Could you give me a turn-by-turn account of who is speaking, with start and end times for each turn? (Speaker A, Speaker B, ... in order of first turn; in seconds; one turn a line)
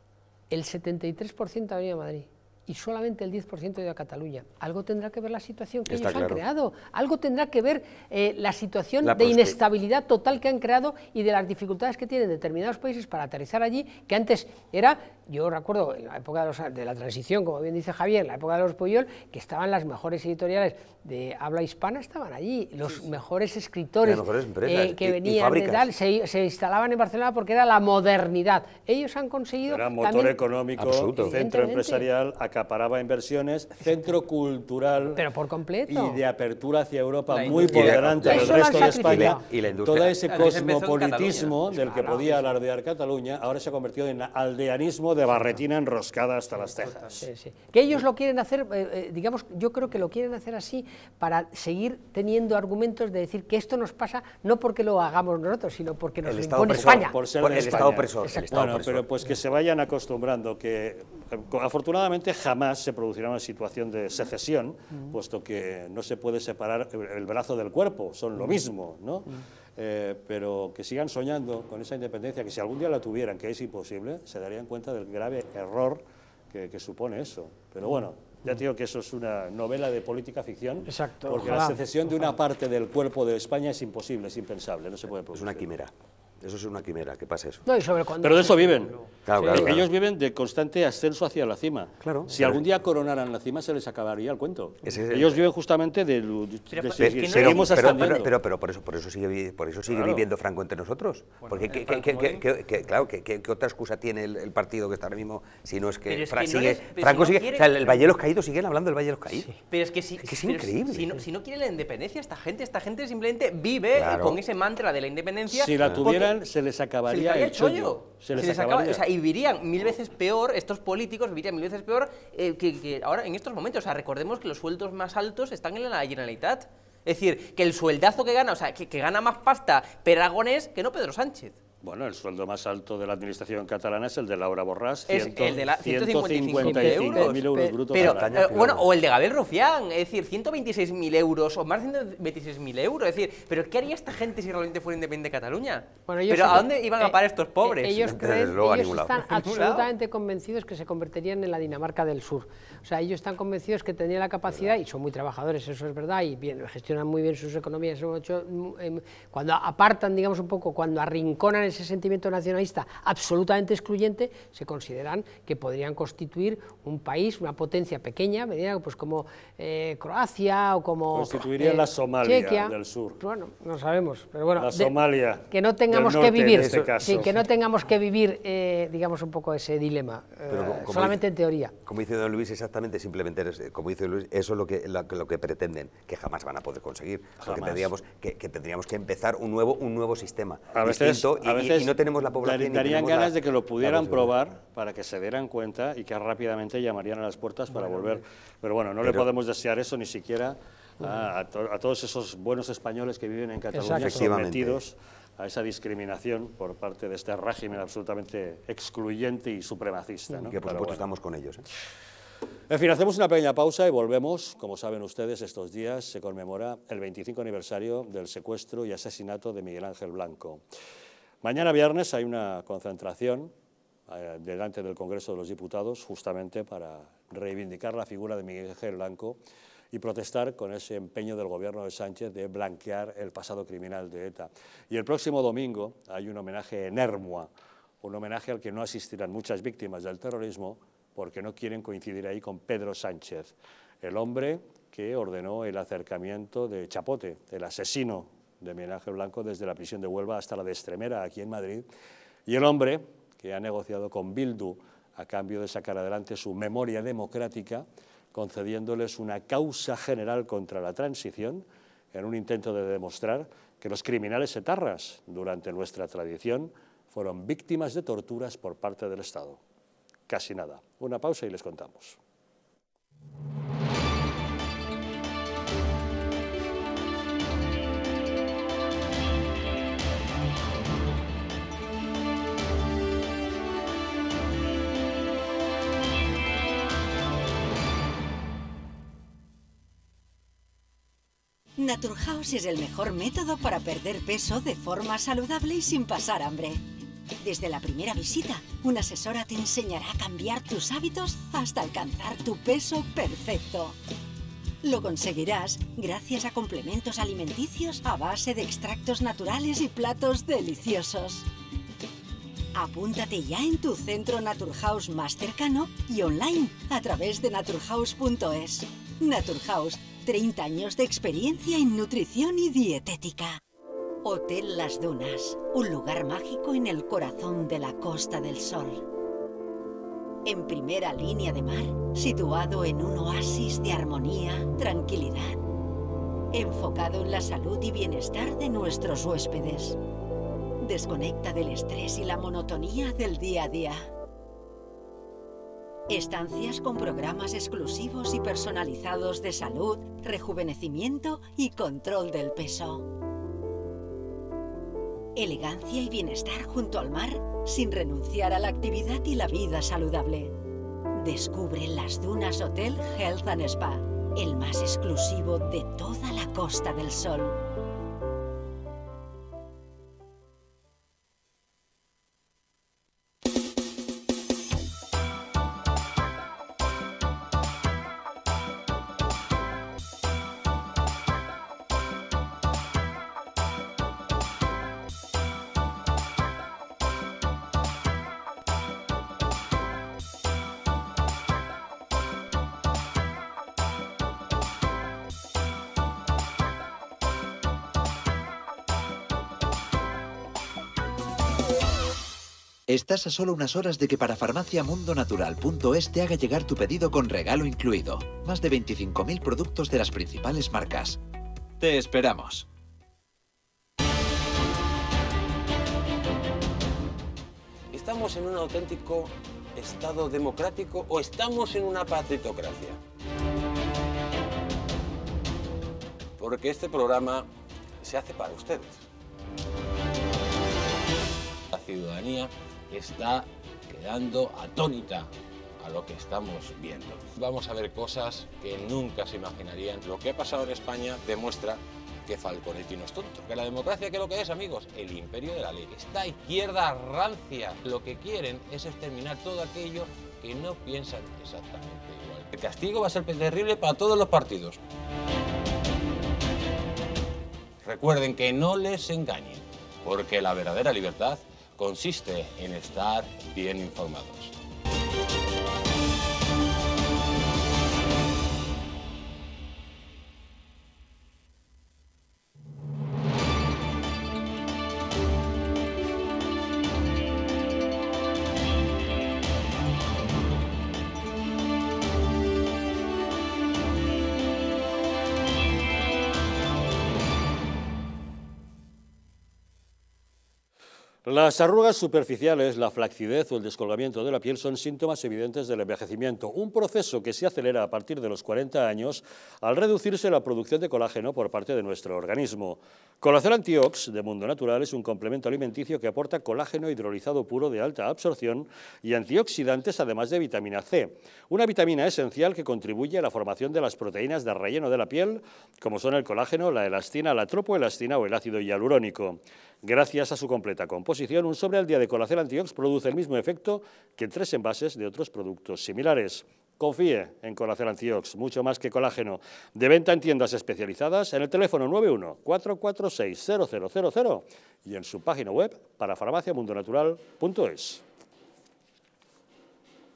Speaker A: 0.5-30.4
Speaker B: 5.9-6.4
Speaker B: 9.0-9.6
Speaker B: 24.0-25.9
Speaker C: 29.7-35.2
Speaker B: 30.8-31.3
Speaker A: 31.2-32.1
Speaker A: 35.2-36.2
Speaker C: 35.9-47.0
Speaker D: 37.3-37.9
Speaker B: 37.5-40.2
Speaker A: 37.7-39.4
Speaker D: 40.3-42.3
Speaker A: 42.0-42.4
Speaker A: 47.2-58.5
Speaker B: 56.2-59.0
Speaker C: 56.8-76.0
Speaker C: 76.5-85.6
Speaker A: 80.9-81.8
Speaker B: 85.3-87.7
Speaker A: 87.7-89.5
Speaker C: 88.2-98.3
Speaker B: 89.3-89.8
Speaker B: 92.0-92.6
Speaker B: 94.8-95.4
Speaker D: 96.7-98.2
Speaker B: 97.0-109.5
Speaker C: 99.9-100.2
Speaker D: 101.4-102.4
Speaker D: 106.1-108.1
Speaker D: 109.7-116.3
Speaker B: 110.2-111.2
Speaker B: 113.9-114.4
Speaker C: 115.5-119.0
Speaker D: 117.1-131.6
Speaker C: 131.8-138.5
Speaker D: 135.1-148.1
Speaker A: 136.6-137.8
Speaker B: 137.9-138.9
Speaker A: 146.1-174.9
Speaker B: 148.0-149.4
Speaker D: 149.4-149.8
Speaker C: 171.1-173.2
Speaker C: 174.6-177.4
Speaker A: 175.5-181.7
Speaker B: 176.6-177.0
Speaker B: 180.5-181.2
Speaker B: 181.8-194.3
Speaker C: 187.4-187.9
Speaker C: 190.7-211.0
Speaker B: 199.0-199.3
Speaker A: 203.7-204.3
Speaker B: 203.9-204.8
Speaker B: 210.5-211.7
Speaker C: 212.7-220.6
Speaker C: 221.4-223.5
Speaker C: 224.1-229.4
Speaker C: 229.9-237.5
Speaker C: 238.0-251.9
Speaker C: 252.5-269.6
Speaker C: 270.3-272.2
Speaker E: 291.8-296.8
Speaker E: 297.4-304.0
Speaker E: 304.8-311.5
Speaker E: 312.8-323.6
Speaker E: 324.2-329.1
Speaker E: 330.4-335.6
Speaker E: 336.5-340.0
Speaker E: 340.8-344.1
Speaker E: 346.1-353.1
Speaker E: 355.4-360.6
Speaker E: 361.2-367.6
Speaker F: 402.9-411.2
Speaker F: 411.8-412.7
Speaker G: 417.9-423.0
Speaker G: 426.4-427.5
Speaker G: 428.0-429.0
Speaker G: 431.7-435.3
Speaker G: 435.8-454.8
Speaker G: 457.8-464.5
Speaker C: 491.2-538.0